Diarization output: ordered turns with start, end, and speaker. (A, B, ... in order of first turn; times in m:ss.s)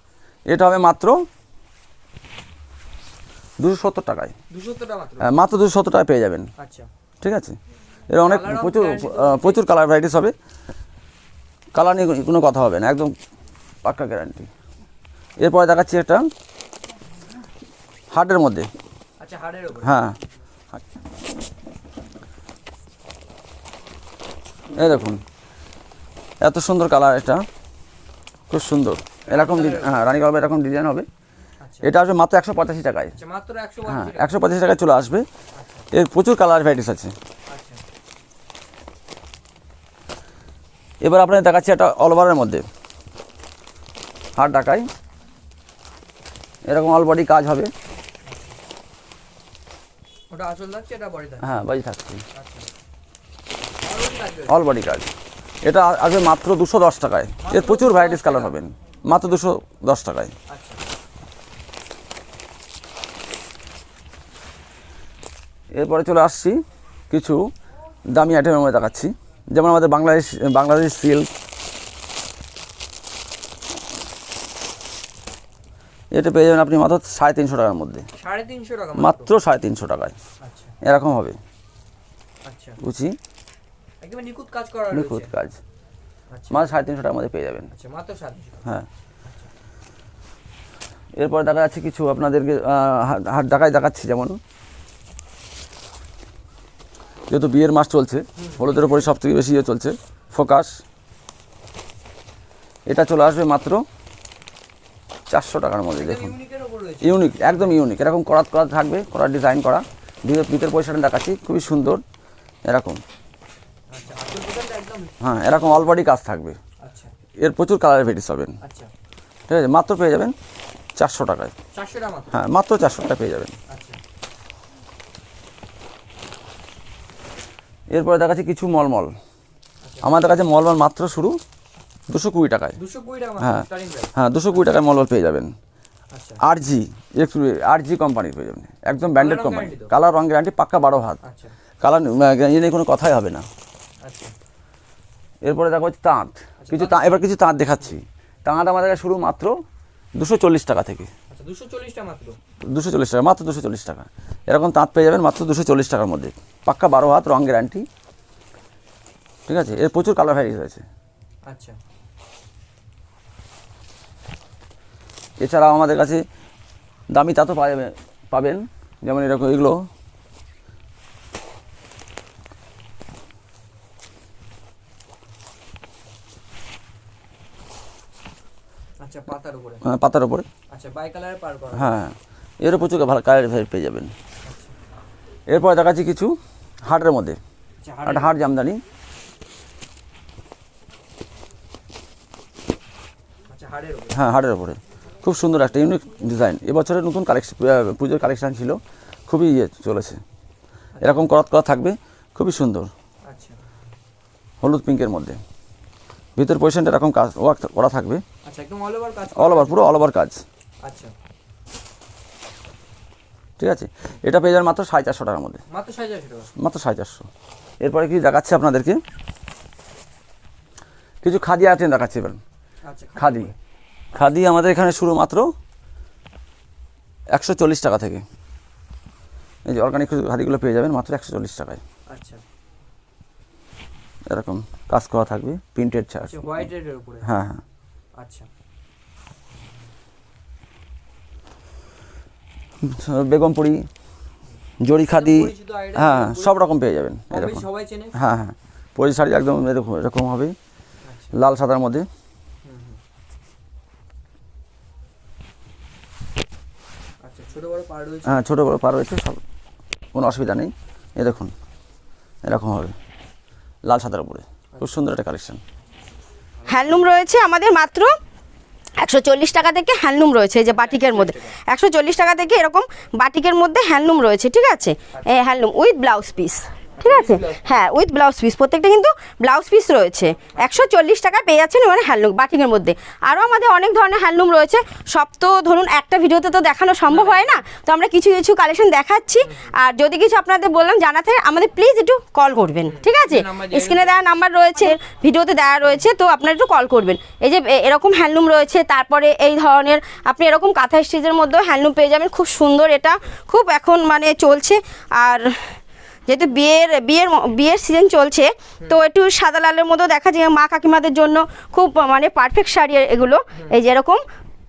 0:00.5-0:01.2 A
0:03.6-0:04.3 A
0:04.5-0:05.4 B
0:05.2-0:06.5 A
0:06.6-0:06.9 B
0:07.2-0:07.6 A
0:08.1-0:10.3 A
0:08.2-0:09.6 B
0:11.7-0:13.1 A
0:13.8-0:14.5 A
0:15.4-0:16.3 A
0:18.1-0:18.7 A
0:19.2-0:20.0 B
0:19.8-0:20.2 A
0:24.7-0:25.2 A
0:26.4-0:27.4 A
0:28.5-0:31.1 A
0:29.3-0:29.9 B
0:31.6-0:31.9 B
0:31.8-0:33.2 A
0:33.2-0:34.4 B
0:33.8-0:35.2 A
0:35.6-0:35.9 B
0:35.9-0:37.1 A
0:37.5-0:37.8 B
0:41.0-0:42.6 A
0:44.4-0:44.9 A
0:46.7-0:47.7 A
0:48.2-0:48.6 B
0:50.3-0:51.5 B
0:51.4-0:52.2 A
0:52.3-0:52.7 B
0:53.8-0:54.6 B
0:54.5-0:55.1 A
0:55.6-1:00.3 A
0:57.4-0:58.5 B
1:00.5-1:00.8 B
1:05.7-1:07.4 A
1:08.1-1:11.3 A
1:16.1-1:18.1 A
1:18.2-1:19.3 B
1:19.0-1:20.2 A
1:20.4-1:20.8 B
1:20.8-1:21.4 A
1:22.4-1:22.8 B
1:22.8-1:23.2 A
1:24.0-1:25.3 B
1:24.9-1:25.6 A
1:26.3-1:26.7 B
1:26.5-1:27.7 A
1:27.7-1:28.7 B
1:31.2-1:34.4 A
1:37.3-1:40.8 A
1:38.4-1:38.7 B
1:42.9-1:43.8 A
1:45.3-1:46.3 A
1:46.0-1:47.8 B
1:47.0-1:52.0 A
1:52.7-1:53.0 A
1:53.9-1:55.8 B
1:55.2-1:56.6 A
1:56.8-1:57.1 B
1:57.4-1:58.6 A
1:58.6-1:58.9 B
1:59.5-2:00.3 A
2:01.0-2:01.5 A
2:01.7-2:02.4 B
2:02.3-2:03.5 A
2:03.7-2:04.0 B
2:07.9-2:09.1 A
2:09.8-2:10.4 B
2:10.0-2:11.4 A
2:12.1-2:12.8 A
2:12.8-2:14.1 B
2:13.4-2:15.5 A
2:16.1-2:16.4 B
2:16.4-2:21.2 A
2:19.1-2:19.9 B
2:21.2-2:21.5 B
2:21.8-2:23.4 A
2:24.0-2:24.3 B
2:25.4-2:29.6 A
2:26.6-2:27.2 B
2:30.2-2:31.1 A
2:31.3-2:32.4 B
2:32.6-2:37.8 A
2:39.5-2:40.8 A
2:41.5-2:41.8 B
2:45.4-2:46.2 A
2:47.1-2:49.8 A
2:59.0-2:59.8 B
2:59.8-3:00.5 A
3:00.7-3:02.0 B
3:01.7-3:04.1 A
3:04.4-3:04.8 B
3:05.5-3:07.4 A
3:07.8-3:08.4 B
3:08.0-3:08.8 A
3:13.5-3:14.2 B
3:14.1-3:20.2 A
3:20.9-3:21.3 B
3:21.0-3:22.9 A
3:23.3-3:23.6 B
3:24.6-3:25.4 A
3:26.4-3:28.2 A
3:28.4-3:29.9 B
3:29.3-3:30.4 A
3:30.8-3:31.1 B
3:33.6-3:35.6 A
3:35.7-3:36.5 B
3:36.6-3:37.3 A
3:37.8-3:39.0 A
3:41.2-3:42.4 A
3:42.9-3:43.5 B
3:43.2-3:43.5 A
3:44.1-3:45.5 A
3:47.3-3:48.2 A
3:49.6-3:51.8 A
3:52.1-3:52.4 B
3:54.3-3:56.6 A
3:56.2-3:57.3 B
3:57.2-3:57.6 A
3:58.2-3:58.5 B
4:02.8-4:03.9 A
4:04.8-4:10.5 A
4:05.0-4:06.6 B
4:07.3-4:08.2 B
4:11.0-4:11.3 B
4:11.3-4:12.1 A
4:12.6-4:13.0 B
4:17.2-4:18.4 B
4:18.2-4:19.4 A
4:20.1-4:21.5 A
4:22.4-4:22.9 A
4:23.9-4:25.6 A
4:26.6-4:27.1 B
4:26.7-4:28.1 C
4:29.0-5:05.7 C
4:30.8-4:31.5 B
4:37.0-4:37.8 B
4:40.6-4:40.9 B
4:47.1-4:47.6 B
4:49.5-4:49.7 B
4:52.9-4:54.1 B
5:06.3-5:14.2 C